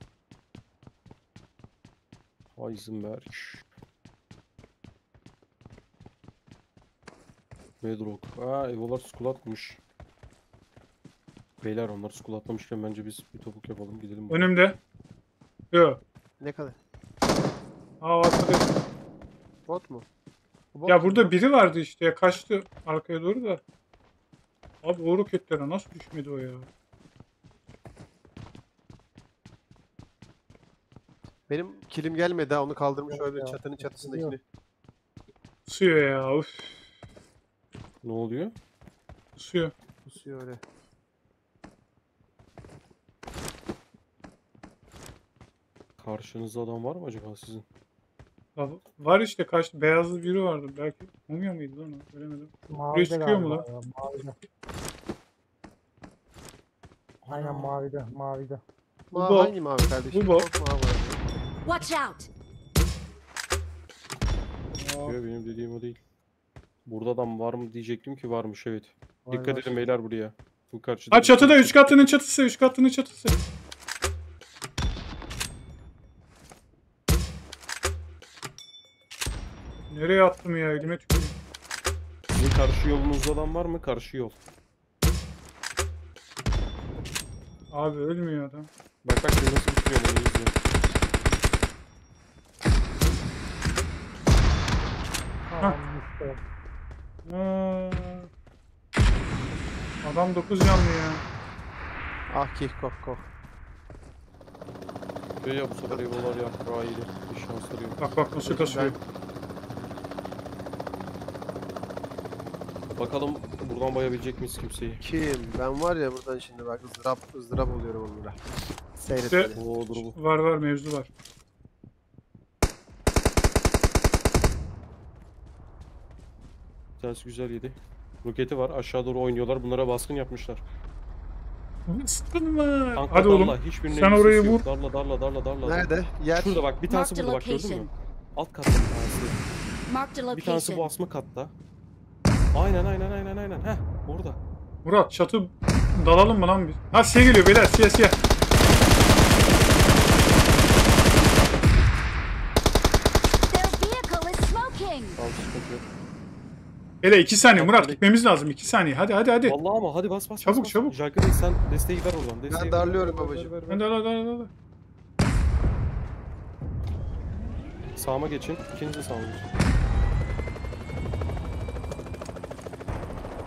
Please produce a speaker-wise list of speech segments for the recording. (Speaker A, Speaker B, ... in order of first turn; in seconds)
Speaker A: 2.5-3.6, 7.8-9.8, 11.6-14.5, 38.0-38.5, 46.0-47.6, 65.0-66.0, 66.8-72.1, 82.4-84.3, 89.0-90.5, 105.4-108.0, 113.0-115.0, 119.5-120.2, 127.0-130.6, 132.9-139.4, 140.3-141.5, 142.5-144.4, 155.1-155.9, 157.5-158.0, 159.4-163.5, 167.9-169.5
Speaker B: 14.3-14.8, 15.7-16.0, 18.0-18.7, 20.9-23.6, 24.8-26.7, 35.7-36.8, 39.4-39.7, 48.5-53.6, 57.4-57.7, 59.1-59.5, 60.1-60.5, 64.7-65.2, 71.1-73.4, 79.9-81.3, 87.7-88.7, 97.2-98.3, 100.0-101.2, 108.0-109.0, 119.3-121.1, 131.9-134.6, 144.8-148.2, 157.0-159.6, 160.4-161.0, 163.6-164.5
Speaker C: 16.4-16.8, 19.7-20.0, 20.7-21.3, 31.5-34.4, 40.0-40.6, 59.1-61.2, 102.3-103.3, 105.9-106.3, 108.4-109.0, 115.0-118.4, 119.0-120.0, 135.6-136.7, 162.5-163.8
Speaker D: 33.1-34.4, 52.7-54.3, 57.3-58.6, 69.2-69.9, 95.5-96.4
Speaker E: 61.6-62.3, 136.8-137.9, 139.9-140.9, 153.5-155.2